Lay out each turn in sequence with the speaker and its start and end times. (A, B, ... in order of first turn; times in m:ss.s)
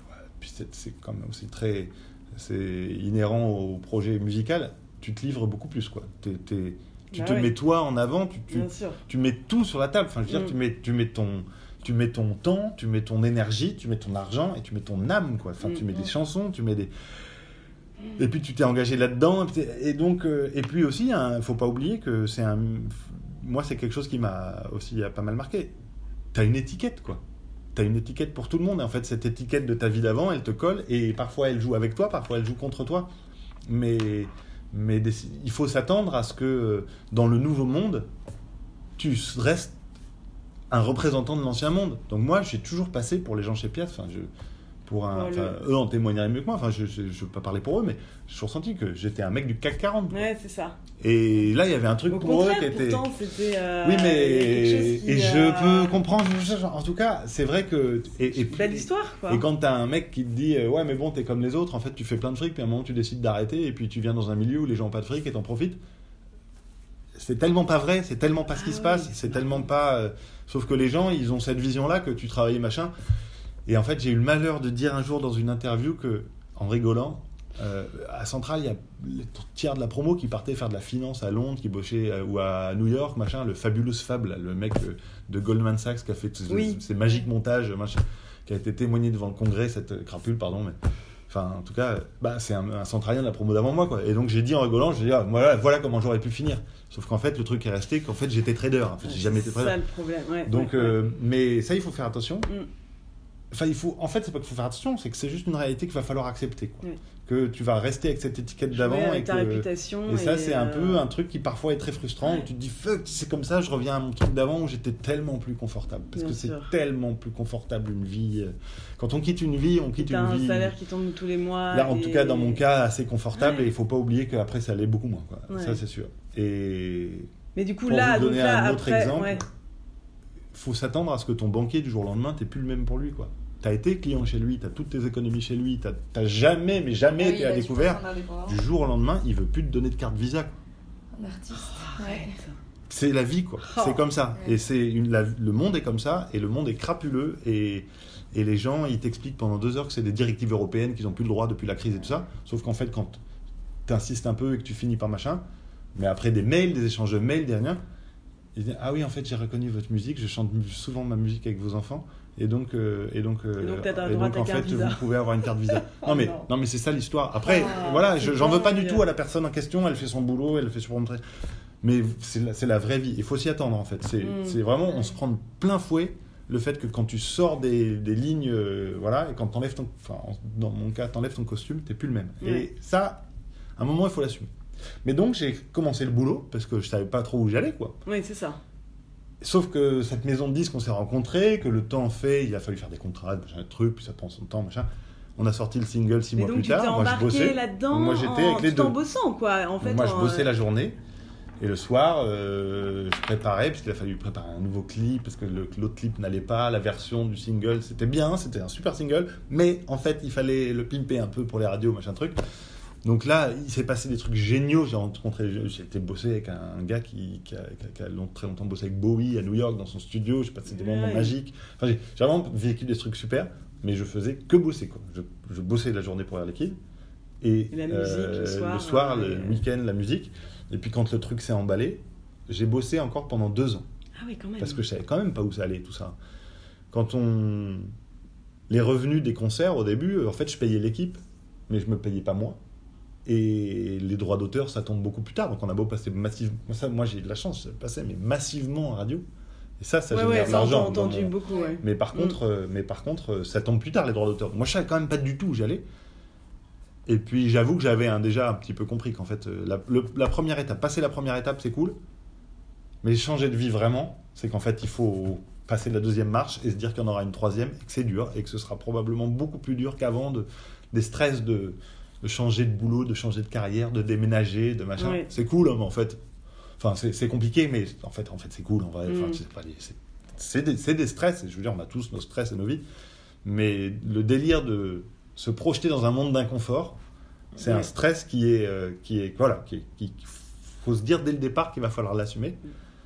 0:00.4-0:16.9 A
0:07.1-0:07.5 B
0:08.5-0:09.0 B
0:10.3-0:10.6 B
0:15.6-0:16.1 B
0:18.2-0:25.7 A
0:26.3-0:27.2 A
0:27.8-0:33.1 A
0:33.7-0:38.1 A
0:39.0-0:39.8 A
0:40.7-0:44.3 A
0:44.9-0:50.2 A
0:45.1-0:45.6 B
0:50.1-0:50.8 B
0:51.0-0:53.1 A
0:52.1-0:56.0 B
0:53.8-1:05.8 A
0:58.5-0:59.4 B
1:07.2-1:12.9 A
1:08.6-1:09.6 B
1:13.7-1:30.8 A
1:26.5-1:26.8 B
1:31.3-1:39.8 A
1:39.0-1:41.0 B
1:40.5-1:42.5 A
1:43.5-2:00.7 A
1:48.7-1:51.0 B
1:56.2-1:56.7 B
2:00.0-2:02.6 B
2:01.7-2:07.3 A
2:03.4-2:03.6 B
2:05.5-2:05.8 B
2:07.6-2:09.4 B
2:07.9-2:09.5 A
2:10.5-2:20.6 A
2:17.2-2:18.6 C
2:21.1-2:22.3 C
2:21.5-2:22.6 B
2:22.9-2:33.2 A
2:23.7-2:24.0 B
2:33.9-2:35.4 A
2:36.0-2:37.8 A
2:38.6-2:51.2 A
2:43.6-2:45.1 B
2:45.7-2:46.4 B
2:47.4-2:49.0 B
2:51.8-3:03.2 A
2:54.2-2:54.6 B
3:03.8-3:04.5 A
3:05.0-3:08.0 A
3:08.1-3:08.6 B
3:09.4-3:19.0 A
3:16.4-3:20.5 B
3:19.8-3:21.0 A
3:21.6-3:32.4 A
3:33.0-3:46.8 A
3:40.7-3:41.3 B
3:47.4-3:53.9 A
3:47.7-3:49.6 B
3:54.2-3:54.8 B
3:54.6-3:56.2 A
3:56.9-3:57.9 A
3:58.7-4:02.6 A
4:03.3-4:09.2 A
4:09.8-4:15.8 A
4:10.1-4:12.4 B
4:11.5-4:11.8 C
4:17.1-4:22.0 A
4:23.0-4:36.2 A
4:35.0-4:35.2 B
4:36.8-4:42.8 A
4:39.1-4:39.4 B
4:43.4-4:47.0 A
4:47.6-4:52.6 A
4:47.6-4:47.9 B